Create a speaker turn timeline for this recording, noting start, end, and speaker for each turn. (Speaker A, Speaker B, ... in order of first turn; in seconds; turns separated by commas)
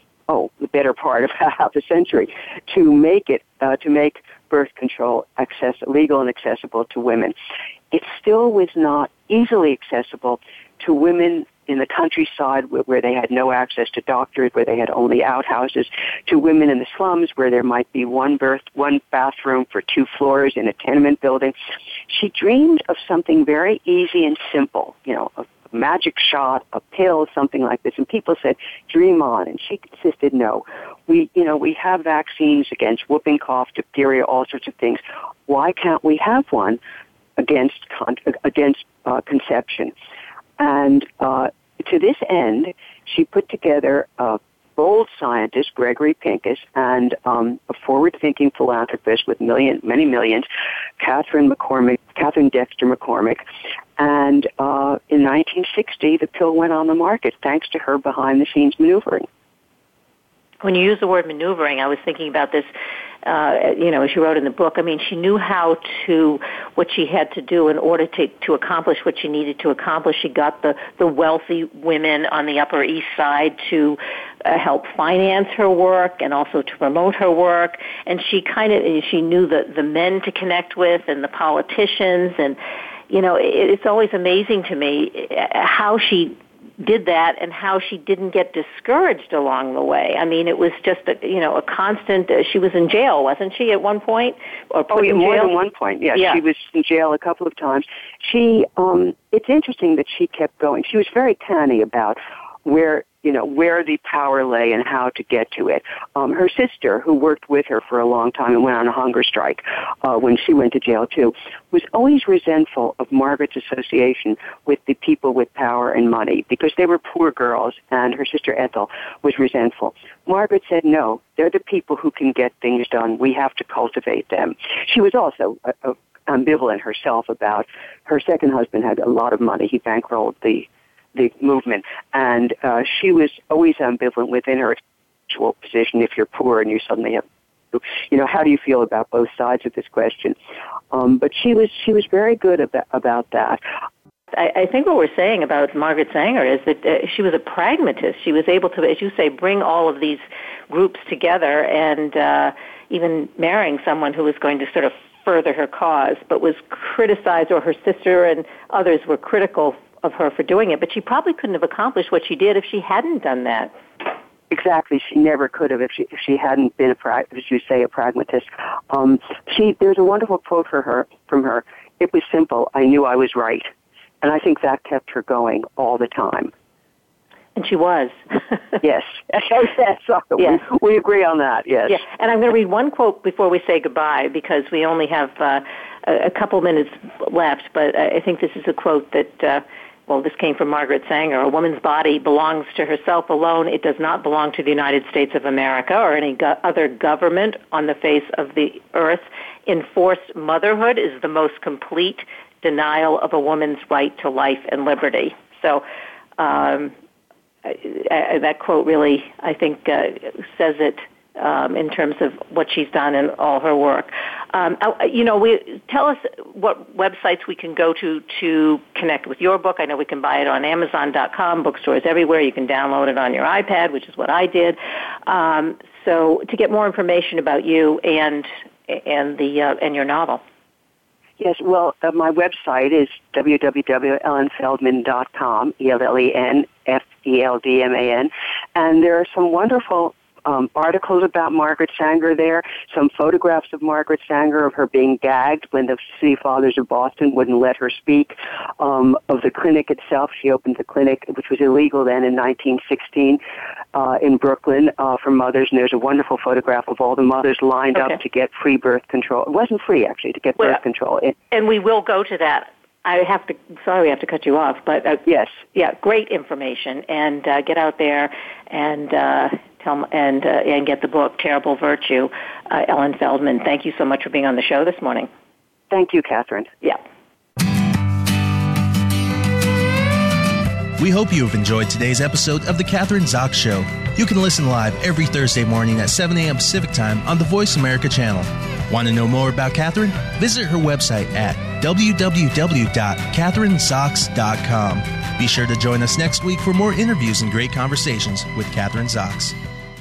Speaker A: 0.3-7.3, Speaker A: 7.9-21.6, Speaker A: 22.1-36.8, Speaker A: 37.4-39.9, Speaker A: 40.6-50.5, Speaker A: 51.0-53.4, Speaker A: 54.0-59.3, Speaker B: 60.6-62.7, Speaker B: 63.2-82.6, Speaker B: 83.1-95.5, Speaker A: 94.9-140.4, Speaker B: 96.2-96.4, Speaker A: 140.9-143.6, Speaker B: 144.3-163.7, Speaker A: 164.5-173.7, Speaker A: 174.2-176.5, Speaker B: 177.6-178.6, Speaker A: 178.8-182.0, Speaker B: 181.9-205.8, Speaker B: 206.4-206.9, Speaker B: 207.7-230.4, Speaker A: 231.4-253.4, Speaker A: 253.9-261.4, Speaker B: 261.5-275.3, Speaker A: 265.3-265.6, Speaker A: 275.9-276.7, Speaker C: 281.0-299.6